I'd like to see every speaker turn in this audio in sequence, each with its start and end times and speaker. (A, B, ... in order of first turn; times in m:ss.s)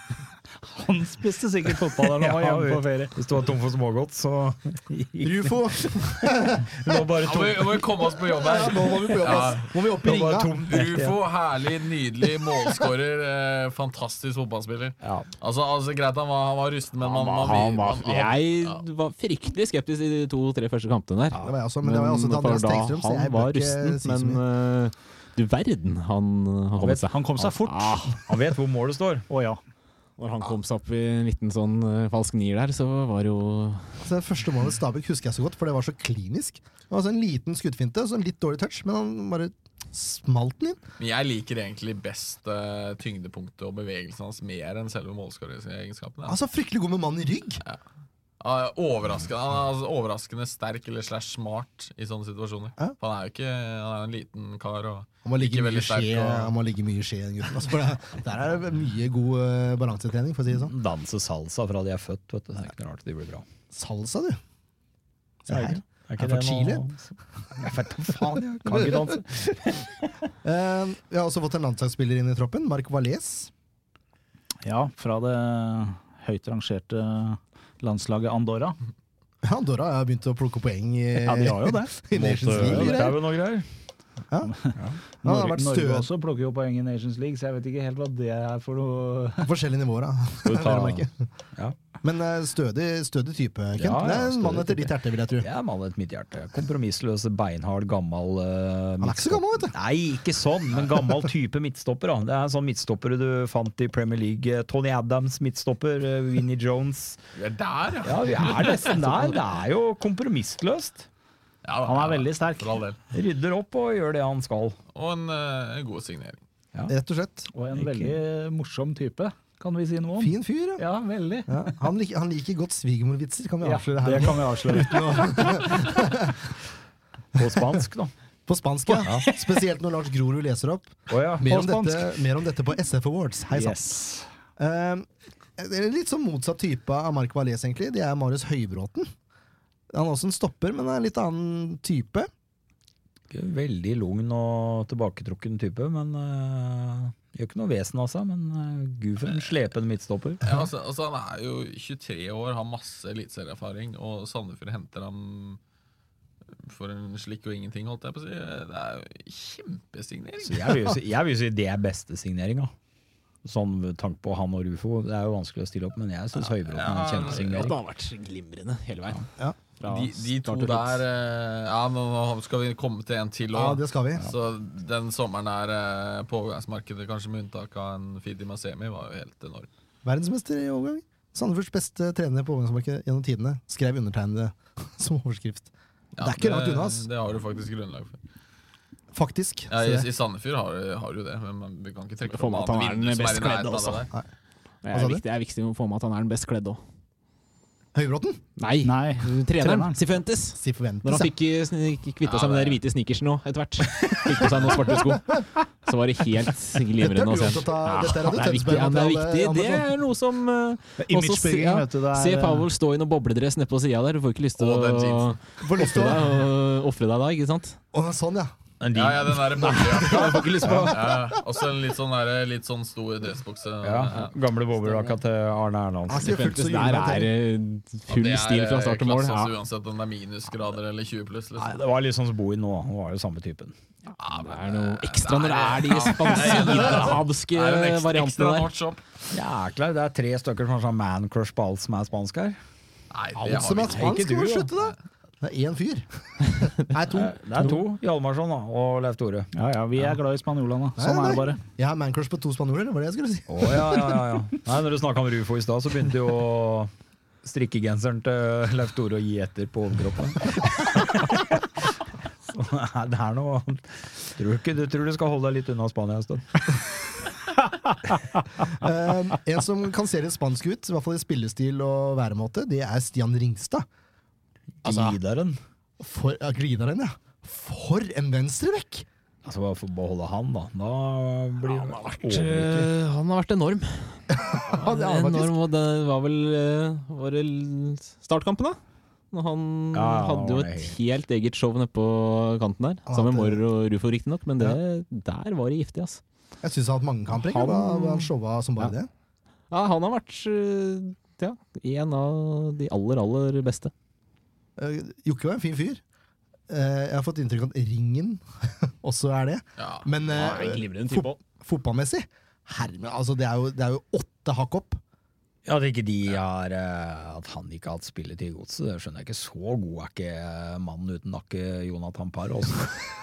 0:00.6-0:03.2 A
0:02.1-0:08.4 B
0:05.2-0:07.0 C
0:07.2-0:18.8 D
0:08.3-0:10.6 C
0:09.1-0:09.5 B
0:10.0-0:11.2 B
0:15.0-0:15.3 B
0:17.0-0:28.2 E
0:21.4-0:24.4 C
0:26.8-0:27.1 B
0:27.1-0:28.2 A
0:28.2-0:29.3 B
0:29.3-0:29.6 A
0:30.2-0:34.0 E
0:34.0-0:40.8 C
0:41.0-0:46.4 D
0:46.3-0:47.6 C
0:48.4-0:56.5 D
0:55.2-1:00.7 C
1:00.5-1:03.4 B
1:03.7-1:04.4 C
1:05.4-1:06.9 C
1:05.5-1:10.1 B
1:07.6-1:09.5 C
1:10.4-1:13.5 C
1:14.6-1:18.8 A
1:19.4-1:23.2 C
1:21.2-1:23.1 A
1:22.1-1:23.7 B
1:24.4-1:29.5 A
1:25.2-1:26.1 C
1:29.4-1:31.2 C
1:30.5-1:30.8 E
1:30.5-1:31.0 B
1:32.0-1:35.5 C
1:33.8-1:47.2 B
1:39.0-1:39.7 C
1:47.4-1:49.0 D
1:48.0-1:51.1 B
1:51.6-1:53.0 D
1:51.9-1:52.8 A
1:53.1-1:54.8 B
1:54.9-1:56.4 D
1:56.9-1:57.5 C
1:57.5-2:01.7 A
1:57.8-1:58.1 B
2:00.2-2:00.8 C
2:01.5-2:06.5 C
2:03.6-2:05.6 A
2:07.4-2:08.1 B
2:07.4-2:07.8 C
2:08.5-2:14.0 C
2:09.0-2:09.3 B
2:11.1-2:11.5 B
2:11.5-2:12.1 A
2:13.5-2:14.2 A
2:14.6-2:19.1 C
2:19.9-2:22.3 C
2:23.3-2:30.7 B
2:29.2-2:29.5 D
2:30.4-2:35.6 D
2:36.6-2:41.0 D
2:40.4-2:42.7 B
2:43.4-2:47.8 B
2:46.4-2:47.7 D
2:47.1-2:49.3 E
2:49.8-2:51.0 E
2:49.8-2:59.7 D
2:53.5-2:54.2 C
3:00.0-3:05.7 C
3:06.2-3:08.2 D
3:06.2-3:07.1 C
3:09.1-3:10.1 C
3:09.7-3:14.1 D
3:12.3-3:14.1 E
3:14.8-3:16.8 E
3:14.9-3:15.2 C
3:17.9-3:18.4 C
3:18.6-3:37.8 E
3:18.8-3:20.0 A
3:20.5-3:21.3 C
3:22.2-3:22.8 D
3:24.9-3:25.4 C
3:27.0-3:29.9 C
3:31.0-3:32.7 A
3:34.6-3:35.4 D
3:35.6-3:36.4 C
3:37.9-3:38.5 C
3:38.8-3:40.9 B
3:38.9-3:44.3 D
3:39.8-3:41.0 E
3:43.8-3:46.5 B
3:46.1-3:47.3 C
3:46.2-3:49.5 E
3:48.1-3:51.8 D
3:51.6-3:53.8 B
3:54.2-3:59.0 D
3:54.3-3:58.7 E
3:59.3-4:02.6 B
4:03.1-4:04.2 D
4:03.4-4:07.4 C
4:04.0-4:04.5 B
4:07.1-4:09.5 B
4:09.5-4:11.6 A
4:11.0-4:14.2 C
4:13.5-4:16.9 B
4:17.4-4:21.7 B
4:22.5-4:26.8 B
4:28.6-4:33.9 C
4:34.8-4:35.6 B
4:34.8-4:35.2 C
4:36.0-4:39.1 C
4:39.4-4:42.9 B
4:41.7-4:48.8 E
4:44.4-4:45.6 C
4:49.3-4:56.2 E
4:49.9-4:51.0 B
4:53.1-4:53.6 C
4:56.6-4:59.1 C
4:57.3-4:58.9 E
4:59.7-5:03.9 E
5:04.8-5:06.0 C
5:06.7-5:15.0 C
5:09.8-5:10.1 D
5:10.3-5:11.4 E
5:15.7-5:23.0 B